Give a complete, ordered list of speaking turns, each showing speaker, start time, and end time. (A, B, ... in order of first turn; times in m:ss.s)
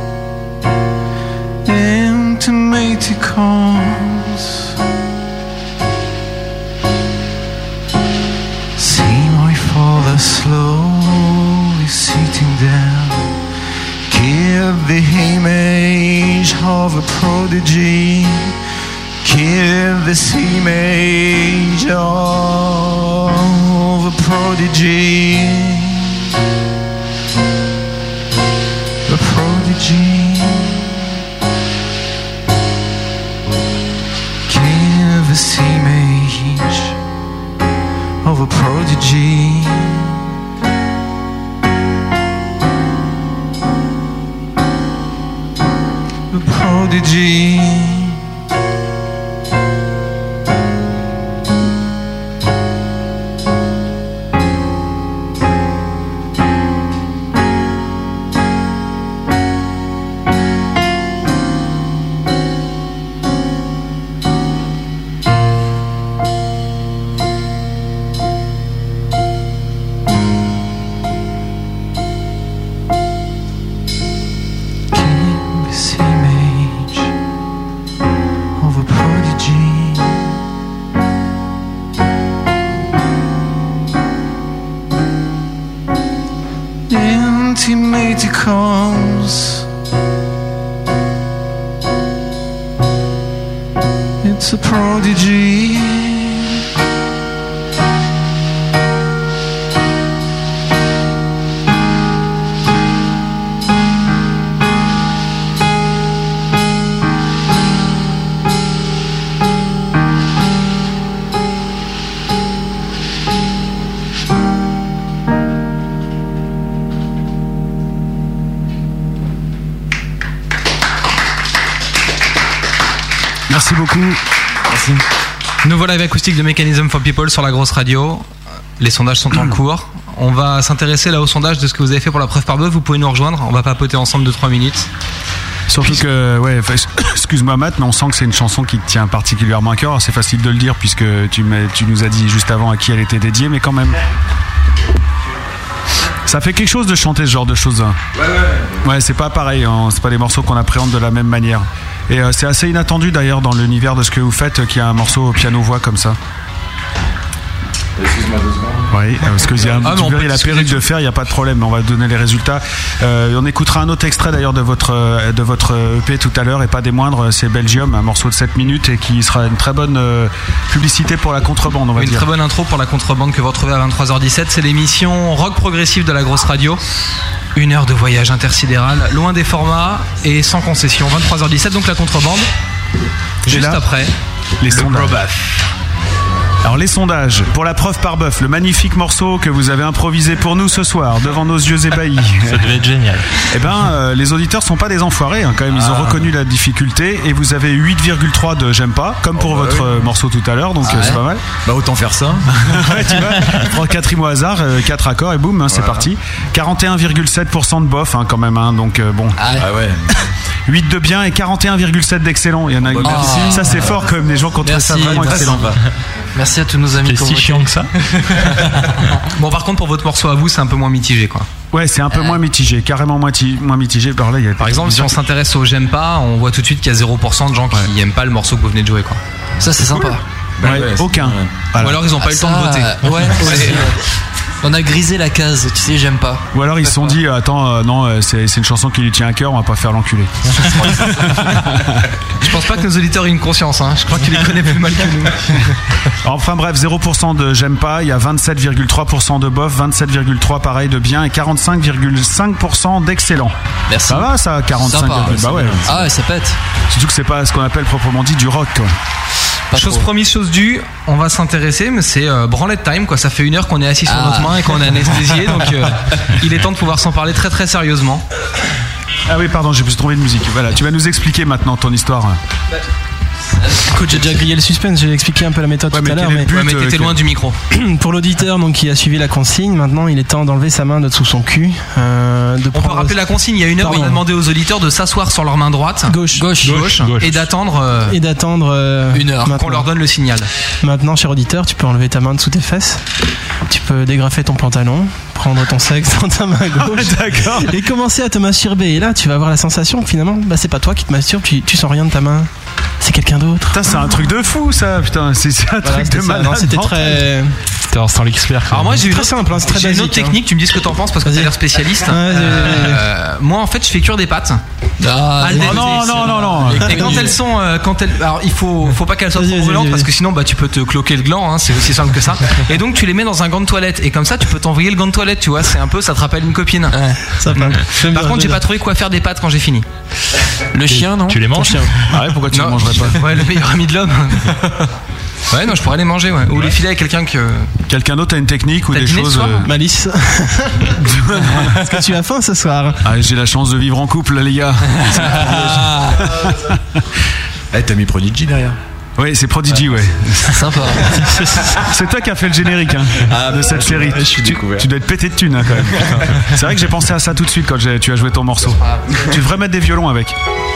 0:01.6-0:04.7 A
0:08.8-0:13.4 A
0:14.1-0:18.6 A
0:19.2-0:26.2 A
0:29.1-0:31.0 A
0:34.5-0:37.0 A
0:38.2-0:40.2 A
0:46.3-0:48.2 A
1:14.9-1:17.1 A
1:18.6-1:20.3 A
1:26.9-1:29.6 A
1:34.2-1:36.6 A
2:03.5-2:04.2 B
2:04.7-2:05.0 C
2:05.6-2:08.2 D
2:08.8-2:14.9 D
2:15.7-2:24.0 B
2:26.2-2:28.0 B
2:28.1-2:28.9 C
2:28.8-2:36.2 B
2:38.0-2:39.8 C
2:38.9-2:52.3 B
2:39.8-2:40.8 D
2:52.0-2:56.8 D
2:57.5-3:02.5 D
3:03.4-3:04.1 D
3:03.4-3:03.8 B
3:04.6-3:05.2 B
3:04.7-3:05.5 D
3:06.6-3:12.7 B
3:12.5-3:13.3 E
3:13.4-3:21.4 B
3:15.7-3:16.3 C
3:19.3-3:20.1 C
3:20.8-3:21.2 F
3:21.6-3:23.5 C
3:22.6-3:29.4 B
3:25.7-3:26.1 C
3:29.4-3:29.7 F
3:29.5-3:30.1 C
3:30.7-3:35.7 B
3:32.8-3:34.0 C
3:33.0-3:33.9 F
3:34.6-3:35.6 F
3:35.0-3:35.8 C
3:36.3-3:37.8 F
3:37.0-3:37.9 E
3:39.3-3:41.5 D
3:41.7-3:45.2 B
3:42.1-3:42.4 F
3:44.6-3:49.2 D
3:49.6-3:50.2 F
3:50.6-3:51.5 C
3:50.6-3:52.0 B
3:51.8-3:53.9 D
3:52.2-3:54.0 F
3:54.6-3:57.2 F
3:56.5-4:02.1 B
4:02.4-4:05.7 D
4:06.2-4:13.5 B
4:13.9-4:16.6 F
4:14.1-4:15.9 B
4:15.2-4:16.1 C
4:16.9-4:18.9 B
4:19.7-4:20.1 F
4:19.7-4:28.2 D
4:24.0-4:25.1 F
4:29.3-4:32.4 B
4:33.6-4:34.5 F
4:33.8-4:36.5 G
4:35.9-4:37.2 B
4:36.5-4:37.6 D
4:37.7-4:43.2 G
4:42.7-4:48.2 D
4:43.8-4:44.2 G
4:46.1-4:46.9 G
4:46.3-4:46.9 F
4:46.9-4:47.3 E
4:48.1-4:49.8 G
4:49.1-4:49.6 F
4:49.5-4:50.5 D
4:50.8-4:53.0 G
4:53.7-5:02.5 G
4:56.8-4:57.8 B
5:03.0-5:03.9 G
5:03.7-5:07.2 B
5:05.8-5:07.6 G
5:07.9-5:09.1 E
5:08.7-5:14.6 D
5:09.0-5:10.4 G
5:11.2-5:11.6 G
5:12.1-5:13.0 G
5:15.0-5:17.3 F
5:15.4-5:27.0 D
5:15.6-5:16.9 B
5:16.8-5:17.3 G
5:19.3-5:20.1 G
5:26.9-5:27.2 F
5:27.4-5:28.6 G
5:27.5-5:29.8 D
5:30.8-5:31.4 A
5:30.8-5:31.6 F
5:30.9-5:32.0 G
5:31.3-5:31.8 E
5:32.0-5:33.2 B
5:32.5-5:34.6 D
5:35.5-5:37.7 D
5:37.9-5:39.7 B
5:38.9-5:39.6 D
5:39.6-5:43.0 G
5:41.0-5:41.9 B
5:43.0-5:46.8 B
5:45.4-5:46.1 D
5:45.4-5:45.7 C
5:47.7-5:48.8 C
5:49.2-5:50.9 B
5:50.4-5:51.7 F
5:51.8-6:00.3 B
5:53.2-5:54.9 C
5:55.8-5:56.5 C
5:58.8-5:59.4 F